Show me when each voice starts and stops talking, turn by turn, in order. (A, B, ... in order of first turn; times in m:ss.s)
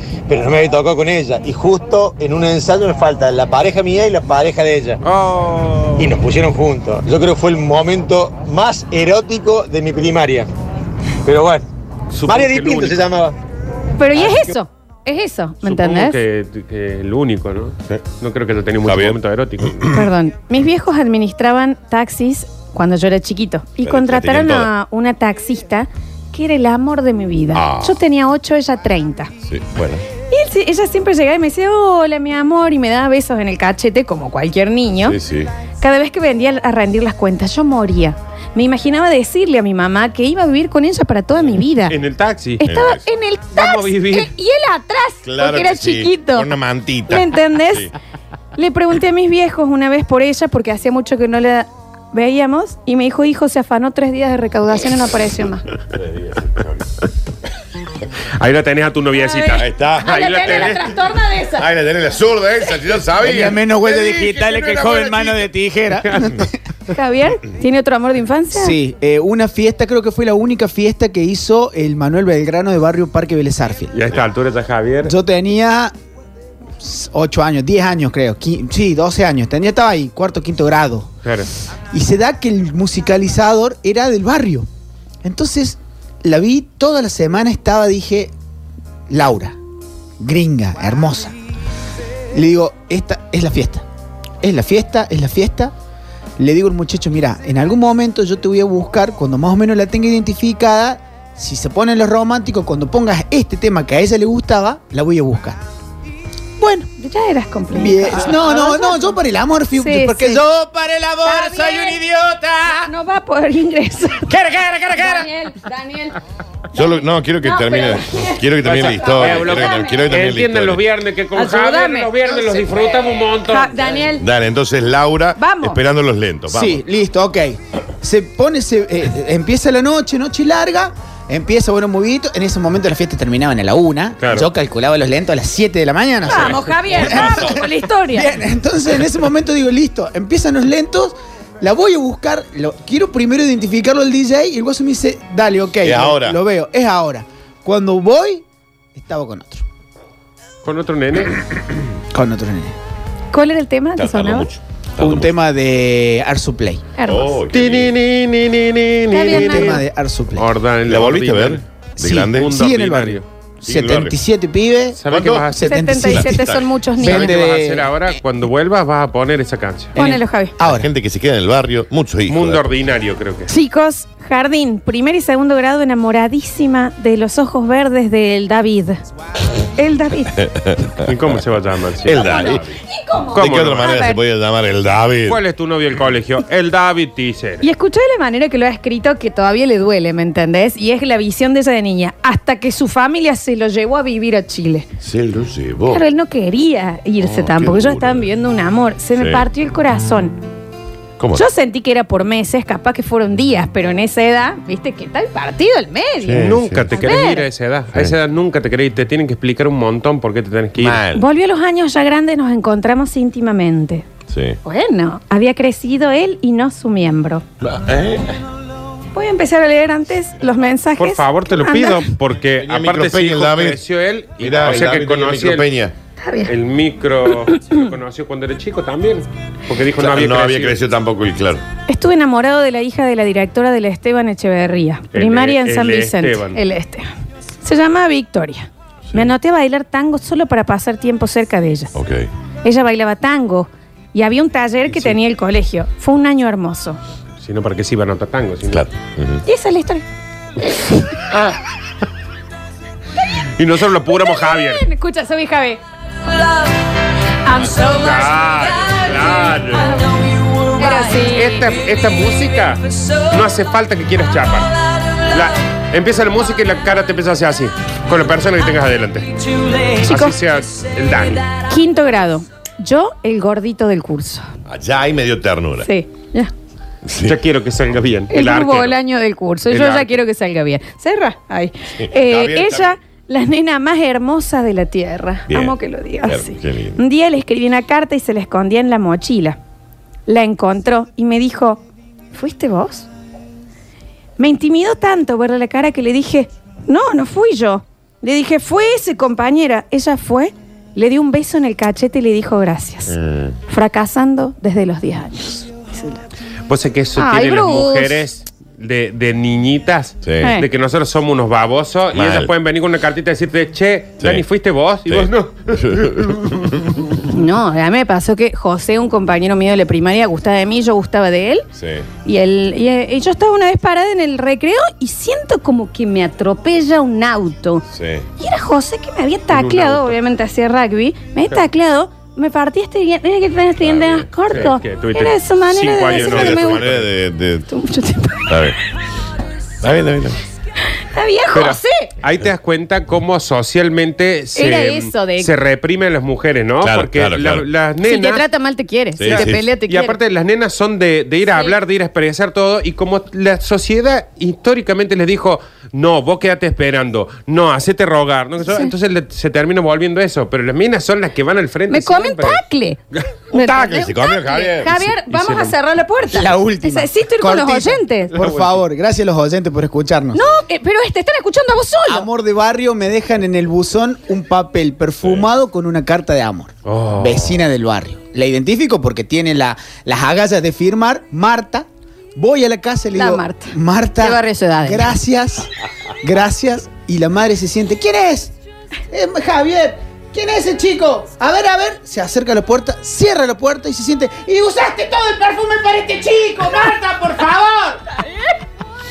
0:00.3-0:05.0 A
0:05.0-0:06.1 B
0:06.0-0:10.5 A
0:11.2-0:11.6 A
0:12.1-0:13.0 B
0:12.2-0:13.4 A
0:14.0-0:16.2 C
0:14.1-0:14.5 A
0:15.6-0:19.8 B
0:18.8-0:20.1 D
0:19.9-0:29.3 C
0:23.8-0:24.7 D
0:27.5-0:28.0 D
0:29.4-0:30.0 D
0:30.3-0:35.2 C
0:35.0-0:35.5 D
0:35.8-0:42.0 C
0:41.9-0:42.6 B
0:42.6-0:46.5 C
0:42.6-0:43.0 D
0:43.5-0:44.3 B
0:45.2-0:47.9 D
0:47.1-0:47.9 C
0:48.6-0:55.7 C
0:55.9-0:56.9 D
0:58.4-1:00.9 B
0:59.2-1:01.7 C
0:59.4-1:00.9 D
1:01.5-1:05.5 D
1:03.2-1:06.6 E
1:06.9-1:08.8 C
1:08.5-1:14.0 E
1:13.9-1:15.1 B
1:15.0-1:15.9 E
1:16.8-1:21.1 E
1:21.9-1:24.7 E
1:25.2-1:28.3 E
1:29.1-1:29.6 E
1:30.2-1:31.3 E
1:32.3-1:33.8 E
1:34.4-1:35.7 E
1:36.4-1:45.6 E
1:46.6-1:46.9 E
1:47.0-1:49.2 C
1:47.7-1:51.3 E
1:49.7-1:50.4 C
1:51.2-1:52.0 C
1:52.7-1:56.2 C
1:54.4-1:55.0 B
1:56.7-2:00.8 D
1:57.4-2:00.1 C
1:58.6-2:03.9 B
2:01.4-2:04.2 C
2:04.2-2:06.8 D
2:05.4-2:05.8 C
2:06.5-2:28.4 E
2:14.2-2:14.5 B
2:16.3-2:18.3 C
2:17.0-2:17.6 D
2:25.8-2:26.4 D
2:29.0-2:29.6 E
2:30.6-2:31.4 B
2:32.1-2:32.8 E
2:33.3-2:34.5 C
2:34.0-2:35.3 D
2:35.0-2:36.9 E
2:37.0-2:37.4 C
2:37.0-2:37.9 D
2:37.5-2:39.8 B
2:39.1-2:39.8 C
2:39.2-2:40.5 E
2:40.4-2:41.6 B
2:40.9-2:42.6 D
2:42.0-2:46.4 E
2:42.2-2:43.2 B
2:43.6-2:44.2 D
2:45.0-2:45.8 B
2:45.1-2:45.6 D
2:45.6-2:47.4 C
2:46.1-2:46.7 D
2:47.0-2:50.0 B
2:47.0-2:48.0 E
2:50.0-2:50.9 E
2:50.0-2:50.5 C
2:50.6-2:52.7 D
2:52.3-2:53.5 B
2:53.5-2:59.0 C
2:59.8-3:00.4 C
3:00.4-3:01.4 D
3:01.0-3:02.5 B
3:02.0-3:02.8 D
3:02.1-3:04.2 C
3:03.3-3:03.9 B
3:03.4-3:05.4 D
3:05.3-3:07.6 B
3:07.6-3:14.9 C
3:15.0-3:16.0 D
3:15.9-3:20.4 C
3:17.2-3:18.3 D
3:19.2-3:19.4 D
3:21.2-3:21.4 D
3:21.3-3:27.4 C
3:26.2-3:27.1 D
3:26.4-3:31.0 B
3:30.8-3:31.3 D
3:31.1-3:34.0 C
3:34.3-3:34.6 D
3:34.6-3:37.4 C
3:37.6-3:38.4 D
3:39.1-3:42.1 C
3:41.0-3:45.7 B
3:42.6-3:43.8 D
3:44.4-3:45.9 D
3:46.2-3:46.5 C
3:46.5-3:50.8 B
3:50.0-3:51.6 D
3:51.9-3:57.1 C
3:55.1-3:56.6 B
3:57.6-4:01.9 C
4:01.9-4:02.3 D
4:02.6-4:07.0 C
4:07.4-4:08.9 B
4:08.7-4:09.4 D
4:09.4-4:10.0 C
4:10.6-4:11.2 C
4:13.6-4:14.8 B
4:14.2-4:15.8 C
4:17.4-4:21.7 C
4:17.7-4:20.0 B
4:20.9-4:24.7 B
4:25.2-4:31.5 B
4:30.0-4:30.4 C
4:31.6-4:34.5 C
4:34.7-4:35.9 D
4:35.8-4:36.5 C
4:37.0-4:37.4 D
4:37.2-4:39.0 B
4:38.3-4:49.6 C
4:39.7-4:40.2 B
4:42.0-4:42.9 D
4:45.5-4:47.0 D
4:50.3-4:51.8 C
4:52.3-4:53.1 C
4:54.4-5:03.2 C
5:03.1-5:03.6 D
5:03.7-5:06.2 C
5:06.7-5:16.5 B
5:07.2-5:08.2 C
5:10.2-5:10.5 D
5:10.4-5:10.7 C
5:12.1-5:12.5 D
5:15.1-5:17.0 D
5:17.3-5:21.7 C
5:21.8-5:22.1 D
5:22.2-5:27.8 C
5:27.9-5:28.3 D
5:28.4-5:36.8 C
5:29.5-5:30.2 B
5:33.8-5:34.6 D
5:34.5-5:37.1 B
5:36.1-5:37.7 D
5:37.7-5:38.6 C
5:38.5-5:38.8 D
5:39.8-5:40.4 D
5:41.0-5:42.1 C
5:41.5-5:48.4 B
5:44.6-5:45.5 C
5:46.8-5:47.7 D
5:48.0-5:50.2 C
5:49.2-5:49.6 D
5:49.2-6:02.6 B
5:51.5-5:51.8 C
5:58.6-5:58.9 C
6:01.9-6:03.0 C
6:03.2-6:04.1 B
6:03.5-6:08.3 C
6:03.6-6:05.1 D
6:05.3-6:05.7 B
6:06.3-6:10.4 E
6:08.4-6:08.8 B
6:10.3-6:12.3 C
6:12.1-6:25.7 E
6:16.9-6:17.5 B
6:23.2-6:25.1 C
6:26.2-6:28.5 E
6:29.1-6:38.0 E